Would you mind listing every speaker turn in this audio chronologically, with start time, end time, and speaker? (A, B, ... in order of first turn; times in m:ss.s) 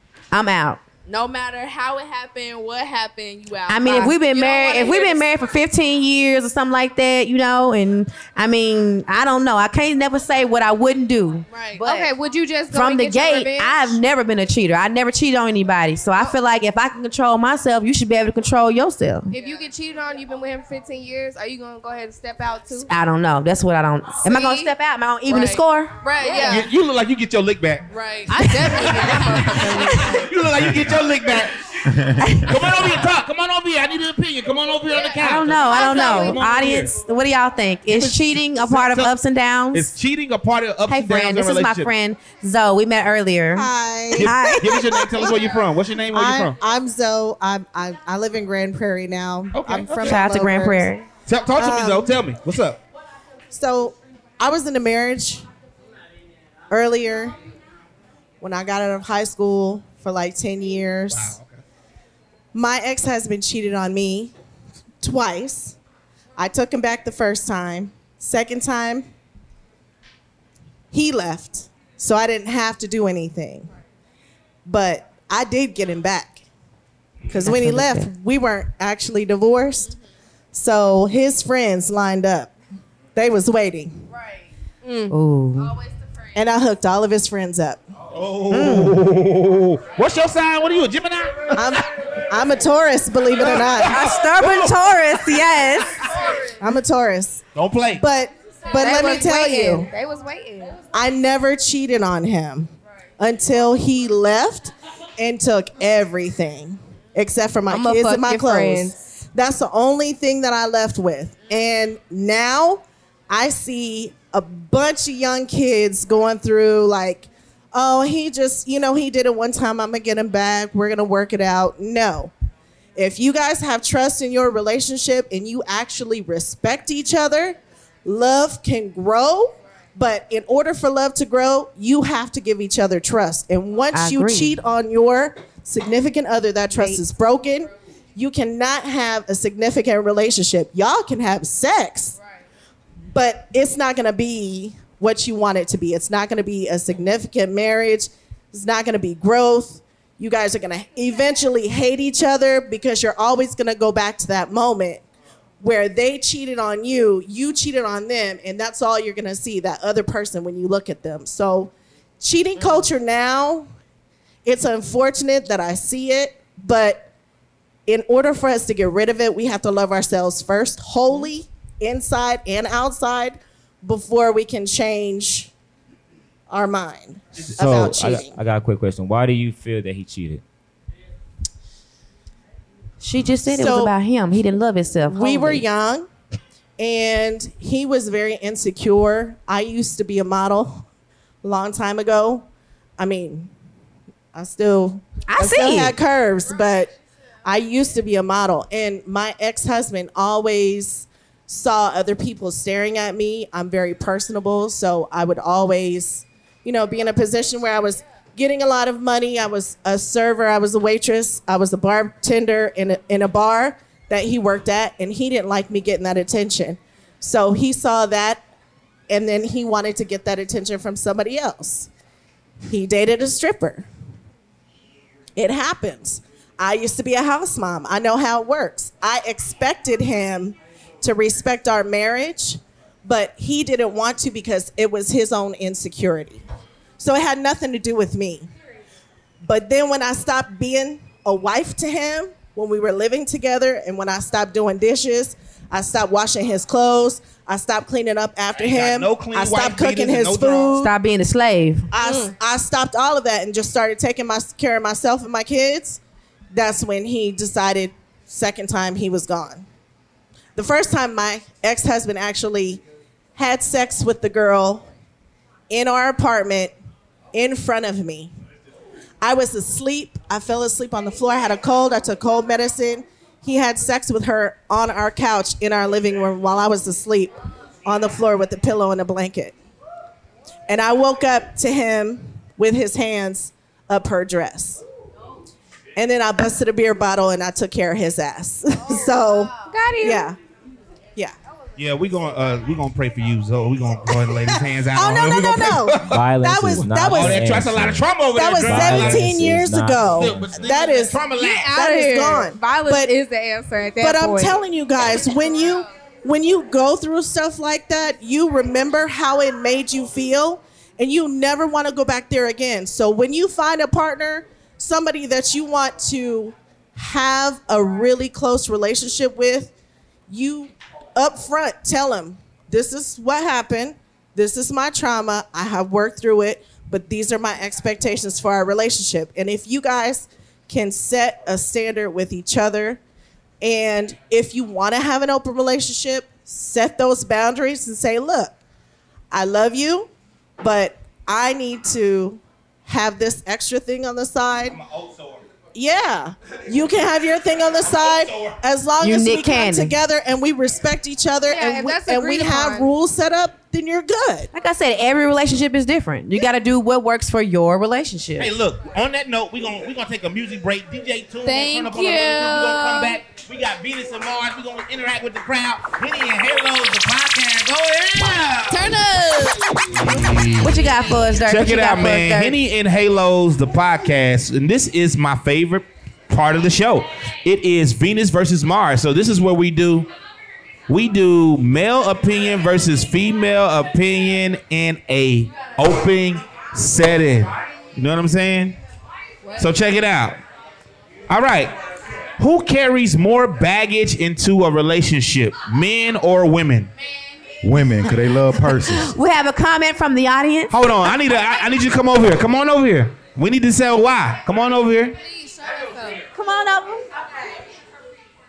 0:00.3-0:00.8 A
0:01.1-0:05.3 B
0:03.7-0:12.1 A
0:11.5-0:11.8 B
0:11.8-0:14.0 C
0:12.7-0:19.3 A
0:19.3-0:22.9 C
0:19.3-0:19.7 B
0:22.8-0:25.9 A
0:24.2-0:24.7 C
0:25.3-0:26.7 B
0:26.2-0:26.7 C
0:26.4-0:27.9 D
0:27.9-0:30.1 B
0:28.3-0:30.3 C
0:28.4-0:31.9 D
0:31.9-0:32.5 E
0:32.2-0:33.0 A
0:32.4-0:37.0 D
0:34.9-0:36.4 B
0:35.2-0:39.9 A
0:37.9-0:39.2 D
0:39.7-0:41.9 D
0:40.9-0:45.4 A
0:43.5-0:44.6 F
0:44.2-0:46.6 D
0:46.1-0:50.9 F
0:49.5-0:50.2 D
0:50.0-0:51.1 A
0:51.3-0:52.8 D
0:51.6-0:52.1 F
0:53.5-0:55.4 F
0:56.7-0:57.4 F
0:58.4-1:01.4 F
1:01.1-1:01.6 D
1:02.5-1:04.3 F
1:05.0-1:05.8 F
1:06.4-1:09.1 F
1:10.9-1:13.7 F
1:14.6-1:16.4 F
1:17.3-1:20.0 F
1:17.4-1:18.1 A
1:20.5-1:22.5 F
1:23.2-1:24.0 F
1:24.1-1:24.5 B
1:24.8-1:25.1 C
1:25.1-1:25.8 A
1:25.6-1:26.4 B
1:26.4-1:27.9 F
1:28.1-1:31.8 D
1:28.5-1:29.0 A
1:31.5-1:34.0 F
1:33.4-1:35.4 D
1:33.8-1:36.1 A
1:36.6-1:37.4 F
1:37.6-1:38.0 D
1:38.0-1:39.9 F
1:38.7-1:40.8 C
1:40.9-2:02.3 F
1:47.7-1:49.0 C
2:03.0-2:22.2 F
2:13.9-2:14.6 A
2:23.1-2:35.0 F
2:35.6-2:43.7 F
2:44.4-2:47.1 F
2:47.9-2:55.5 F
2:56.5-2:58.4 F
2:57.4-2:57.7 D
2:57.6-3:00.4 G
3:03.0-3:05.7 A
3:03.5-3:03.9 F
3:05.1-3:06.1 F
3:06.8-3:10.9 F
3:11.4-3:13.5 F
3:14.3-3:16.9 F
3:15.3-3:16.0 A
3:17.4-3:38.4 F
3:39.1-3:41.9 F
3:42.6-3:43.9 F
3:45.4-3:56.4 F
3:57.0-3:58.5 F
3:59.4-4:10.9 F
4:08.6-4:10.7 D
4:10.8-4:11.9 A
4:11.9-4:16.0 F
4:12.0-4:12.3 C
4:16.5-4:19.6 F
4:20.6-4:22.8 F
4:23.4-4:24.9 F
4:25.7-4:26.7 F
4:27.3-4:28.3 F
4:29.2-4:39.6 F
4:40.7-4:44.8 F
4:46.0-4:50.4 F
4:49.6-4:50.3 C
4:51.8-4:56.2 D
4:54.4-4:57.5 F
4:56.1-5:00.7 G
4:57.1-4:59.4 D
4:58.3-5:03.1 F
5:00.0-5:01.8 D
5:01.3-5:04.6 C
5:04.0-5:19.7 F
5:20.3-5:33.0 F
5:33.6-5:38.6 F
5:39.3-5:44.8 F
5:44.7-5:45.4 D
5:45.7-5:54.5 F
5:48.0-5:48.6 D
5:49.0-5:50.0 A
5:51.5-5:52.9 C
5:54.5-5:58.6 A
5:58.4-6:08.9 D
6:01.4-6:03.2 B
6:08.7-6:09.9 B
6:09.9-6:10.8 D
6:10.6-6:12.6 A
6:11.4-6:20.1 D
6:20.9-6:28.8 D
6:29.6-6:30.4 D
6:31.3-6:31.7 D
6:32.4-6:36.9 D
6:37.6-6:39.1 E
6:38.6-6:40.7 A
6:40.7-6:45.2 D
6:45.4-6:46.0 B
6:46.3-6:47.1 A